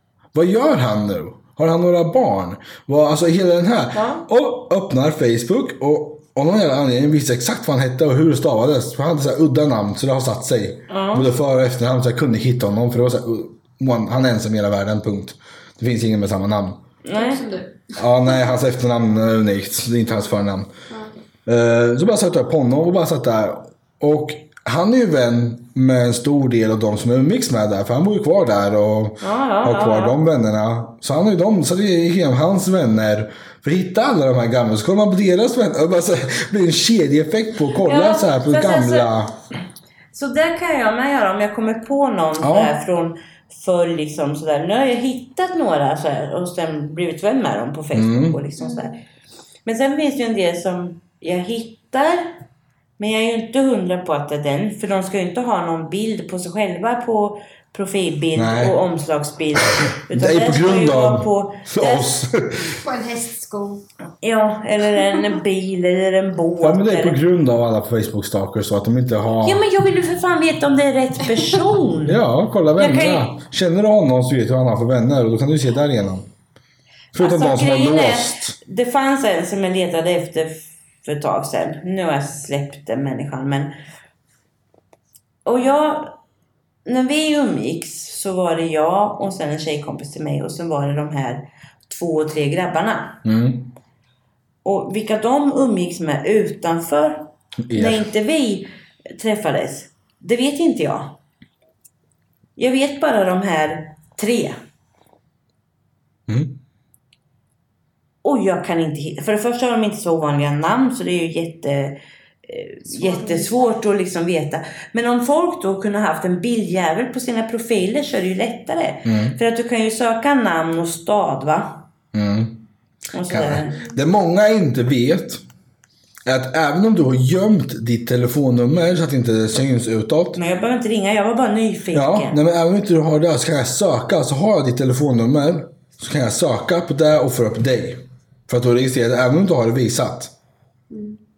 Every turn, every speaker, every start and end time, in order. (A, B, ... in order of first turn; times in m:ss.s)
0:00.3-0:16.8 A
0:03.9-0:04.2 B
0:10.9-0:11.3 C
0:17.0-0:17.4 C
0:17.1-0:18.4 B
0:18.0-0:20.7 A
0:20.9-0:21.2 B
0:21.4-0:39.3 A
0:29.2-0:30.2 C
0:37.8-0:39.1 C
0:40.1-0:48.9 C
0:42.4-0:42.7 A
0:47.9-0:48.4 A
0:48.6-0:48.9 B
0:49.6-0:52.4 C
0:53.0-1:02.2 C
0:58.3-0:58.8 A
1:00.1-1:02.8 A
1:02.8-1:03.8 B
1:04.2-1:07.2 C
1:06.6-1:09.6 A
1:09.4-1:12.2 C
1:12.0-1:16.3 A
1:12.8-1:13.4 C
1:17.1-1:18.6 A
1:17.2-1:23.7 C
1:25.4-1:26.2 C
1:26.8-1:33.2 C
1:33.2-1:33.7 A
1:34.6-1:41.1 C
1:37.6-1:38.1 A
1:42.6-1:44.6 C
1:46.3-1:46.5 A
1:48.2-2:01.8 C
1:52.9-1:53.6 B
1:59.0-1:59.4 A
2:02.1-2:02.6 A
2:03.1-2:03.9 C
2:03.3-2:05.4 A
2:06.2-2:10.4 A
2:10.4-2:12.4 C
2:11.9-2:20.3 A
2:20.9-2:21.2 B